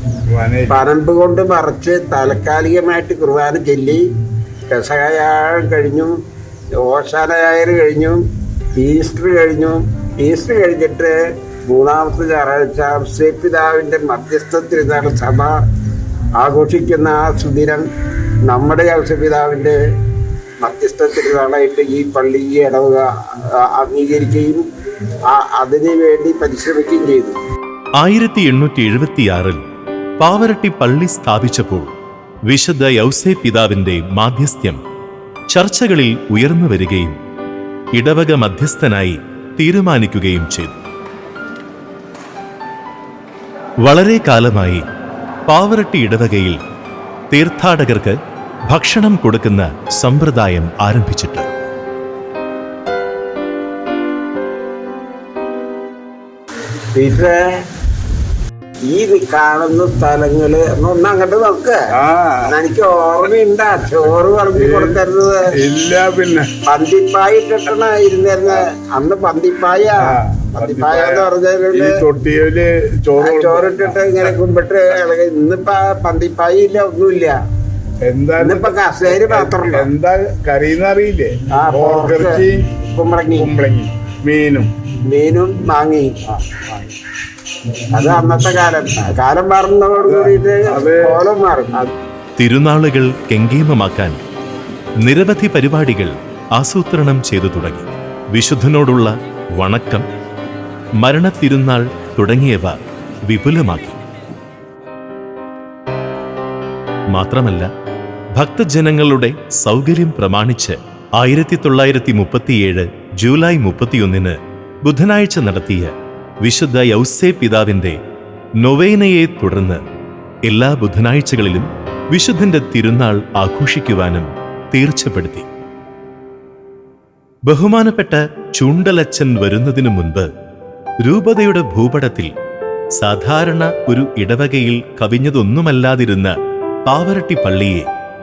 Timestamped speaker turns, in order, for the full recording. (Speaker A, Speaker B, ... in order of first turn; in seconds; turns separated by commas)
Speaker A: 0.3-0.8, Speaker B: 0.7-4.0, Speaker B: 4.7-6.1, Speaker B: 6.8-8.2, Speaker B: 8.8-11.1, Speaker B: 11.7-15.5, Speaker B: 16.4-17.9, Speaker B: 18.5-19.8, Speaker B: 20.6-24.6, Speaker B: 25.3-27.4, Speaker C: 28.0-29.6, Speaker C: 30.2-31.9, Speaker C: 32.5-34.8, Speaker C: 35.5-37.2, Speaker C: 38.0-40.8, Speaker C: 43.8-44.8, Speaker C: 45.5-46.6, Speaker C: 47.3-48.2, Speaker C: 48.7-51.6, Speaker B: 56.9-57.4, Speaker B: 58.9-61.8, Speaker A: 62.0-62.4, Speaker B: 62.5-65.4, Speaker A: 64.5-65.0, Speaker A: 65.6-66.5, Speaker B: 66.7-72.0, Speaker A: 70.0-74.3, Speaker B: 73.2-77.3, Speaker A: 78.0-82.7, Speaker B: 78.4-79.9, Speaker B: 81.5-83.5, Speaker A: 83.3-84.7, Speaker B: 85.1-86.1, Speaker B: 87.9-91.9, Speaker A: 90.0-91.2, Speaker C: 92.4-94.2, Speaker C: 95.0-100.0, Speaker C: 101.0-102.8, Speaker C: 103.3-104.0, Speaker C: 107.1-107.7, Speaker C: 108.4-115.9, Speaker C: 116.4-118.0, Speaker C: 118.6-119.8, Speaker C: 120.5-125.5, Speaker C: 127.5-130.3, Speaker C: 131.0-132.3, Speaker C: 133.0-136.3, Speaker C: 136.9-137.9